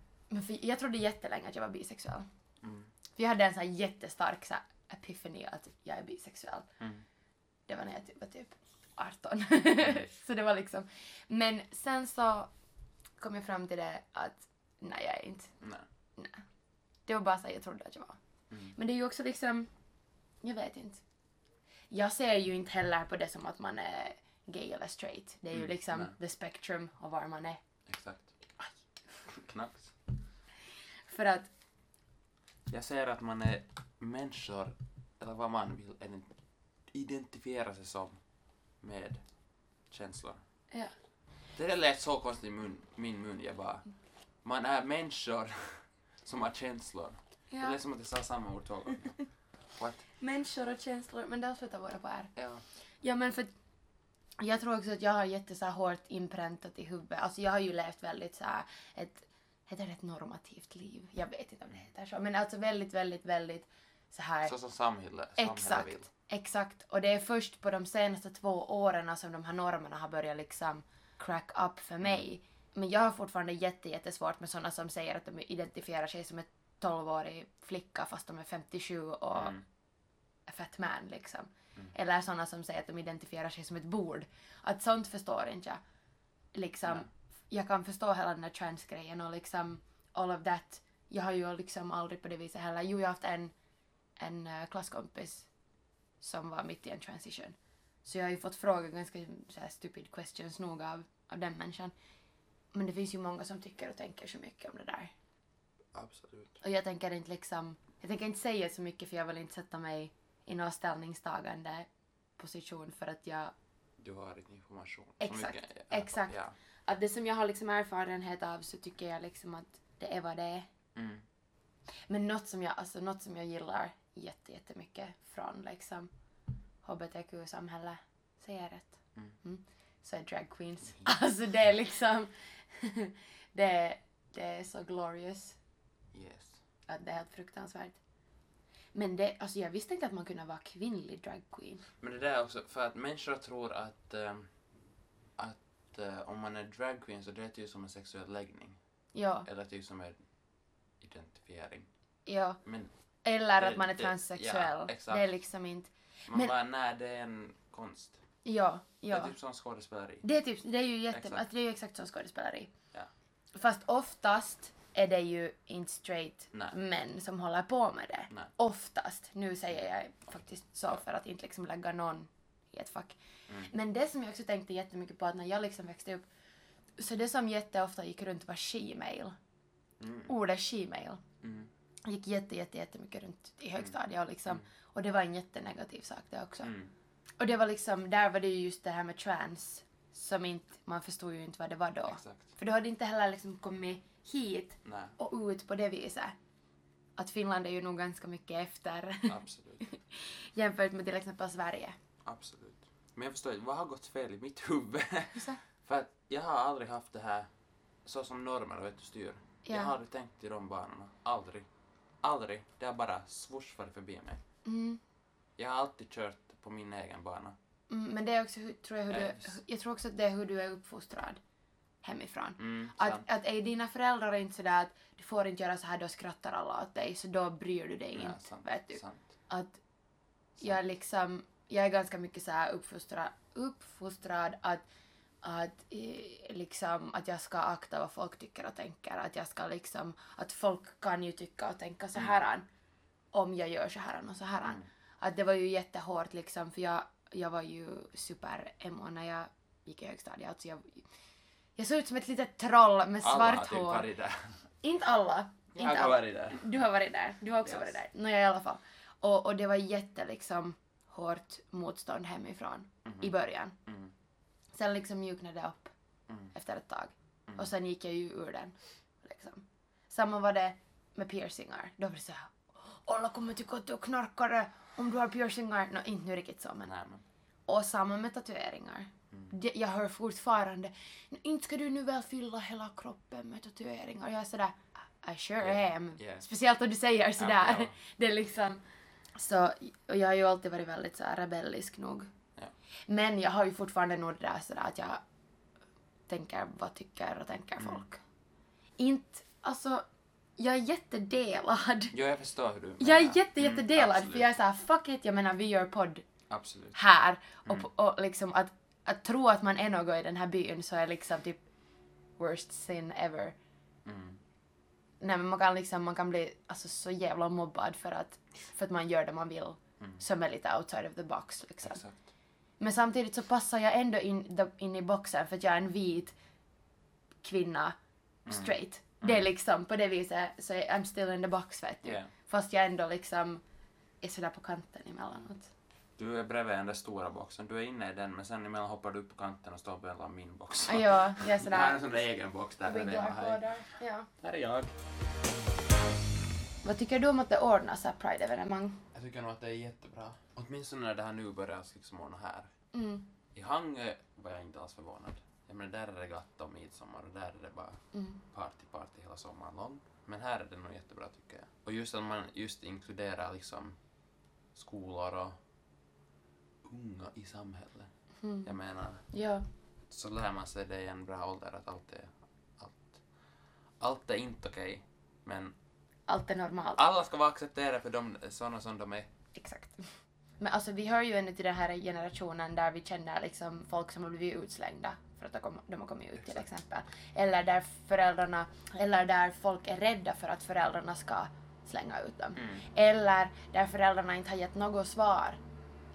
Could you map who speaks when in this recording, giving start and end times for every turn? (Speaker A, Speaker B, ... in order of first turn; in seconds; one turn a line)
Speaker A: 0.3-2.2
Speaker B: 2.6-2.9
Speaker A: 3.1-6.7
Speaker B: 6.8-7.0
Speaker A: 7.7-12.5
Speaker A: 13.2-15.6
Speaker B: 15.6-15.8
Speaker A: 16.2-16.4
Speaker A: 17.1-18.2
Speaker B: 18.5-18.7
Speaker A: 18.7-19.7
Speaker A: 20.4-21.0
Speaker A: 21.9-27.6
Speaker B: 25.5-26.1
Speaker B: 27.9-28.3
Speaker B: 29.2-29.9
Speaker A: 31.1-31.5
Speaker B: 32.7-36.3
Speaker B: 36.9-38.2
Speaker B: 38.8-39.2
Speaker B: 39.9-40.4
Speaker B: 41.5-43.9
Speaker B: 44.4-49.1
Speaker A: 47.5-47.8
Speaker B: 49.8-50.0
Speaker A: 50.2-52.3
Speaker B: 52.4-52.6
Speaker A: 53.0-53.5
Speaker A: 54.4-64.5
Speaker B: 64.4-66.1
Speaker A: 65.4-79.6
Speaker B: 79.3-79.6
Speaker A: 80.5-85.8
Speaker A: 86.5-93.5
Speaker A: 94.2-95.5
Speaker A: 96.2-101.9
Speaker A: 102.7-105.1
Speaker B: 105.9-106.6
Speaker A: 106.6-113.5
Speaker B: 114.0-116.5
Speaker A: 115.2-120.7
Speaker B: 120.9-121.2
Speaker A: 122.1-126.1
Speaker A: 126.8-135.6
Speaker B: 136.1-136.6
Speaker A: 136.9-138.0
Speaker A: 138.9-141.8
Speaker B: 142.0-144.5
Speaker B: 145.4-148.8
Speaker A: 149.1-149.5
Speaker B: 149.4-150.2
Speaker B: 151.0-151.9
Speaker A: 152.2-152.6
Speaker B: 152.6-152.9
Speaker A: 153.2-156.5
Speaker B: 153.6-155.3
Speaker B: 156.3-158.2
Speaker A: 158.4-159.3
Speaker B: 159.1-160.2
Speaker A: 160.2-162.7
Speaker B: 161.1-161.4
Speaker A: 163.6-176.2
Speaker A: 177.0-179.3
Speaker B: 180.0-180.3
Speaker A: 180.3-181.2
Speaker B: 181.4-181.7
Speaker A: 182.1-186.7
Speaker B: 186.6-186.9
Speaker A: 187.4-196.3
Speaker B: 192.1-192.4
Speaker B: 194.8-195.1
Speaker A: 197.2-201.9
Speaker B: 199.3-199.8
Speaker B: 202.2-207.5
Speaker A: 205.3-205.6
Speaker B: 208.0-211.7
Speaker A: 209.6-209.9
Speaker B: 212.2-214.4
Speaker A: 214.6-215.0
Speaker B: 215.6-217.6
Speaker A: 217.9-221.4
Speaker B: 219.1-219.6
Speaker A: 222.0-229.8
Speaker B: 222.6-223.2
Speaker B: 228.1-229.2
Speaker A: 230.6-234.8
Speaker A: 235.4-242.7
Speaker A: 243.3-251.0
Speaker A: 251.8-254.1
Speaker B: 253.2-254.6
Speaker A: 254.8-263.8
Speaker B: 255.7-256.7
Speaker B: 257.6-258.0
Speaker B: 263.0-263.3
Speaker B: 263.9-264.1
Speaker A: 264.7-265.9
Speaker A: 266.5-276.9
Speaker B: 276.9-277.2
Speaker A: 277.7-288.8
Speaker B: 285.6-286.4
Speaker B: 287.4-287.9
Speaker A: 289.4-292.3
Speaker A: 293.1-295.2
Speaker A: 296.3-298.2
Speaker B: 297.8-298.1
Speaker A: 299.0-300.0
Speaker A: 300.6-302.1
Speaker B: 302.1-304.5
Speaker A: 303.0-306.2
Speaker B: 306.5-307.0
Speaker A: 306.9-311.6
Speaker A: 312.4-313.6
Speaker B: 314.0-314.4
Speaker A: 315.2-322.0
Speaker B: 321.8-322.2
Speaker A: 322.8-326.3
Speaker A: 327.4-327.9
Speaker B: 328.4-329.5
Speaker A: 328.5-333.6
Speaker B: 332.0-332.3
Speaker A: 334.2-335.7
Speaker B: 336.1-344.9
Speaker A: 340.9-342.2
Speaker A: 342.8-344.3
Speaker A: 346.8-349.0
Speaker B: 349.1-352.7
Speaker A: 352.9-353.3
Speaker B: 353.5-358.0
Speaker A: 358.1-358.4
Speaker B: 358.5-364.0
Speaker B: 364.7-365.6
Speaker B: 366.8-368.1
Speaker A: 368.4-368.7
Speaker B: 368.6-369.2
Speaker A: 369.3-369.6
Speaker B: 370.1-373.2
Speaker B: 374.0-375.7
Speaker A: 376.3-377.0
Speaker B: 376.9-379.3
Speaker A: 379.5-380.1
Speaker A: 380.6-395.6
Speaker B: 386.4-386.6
Speaker B: 392.6-392.8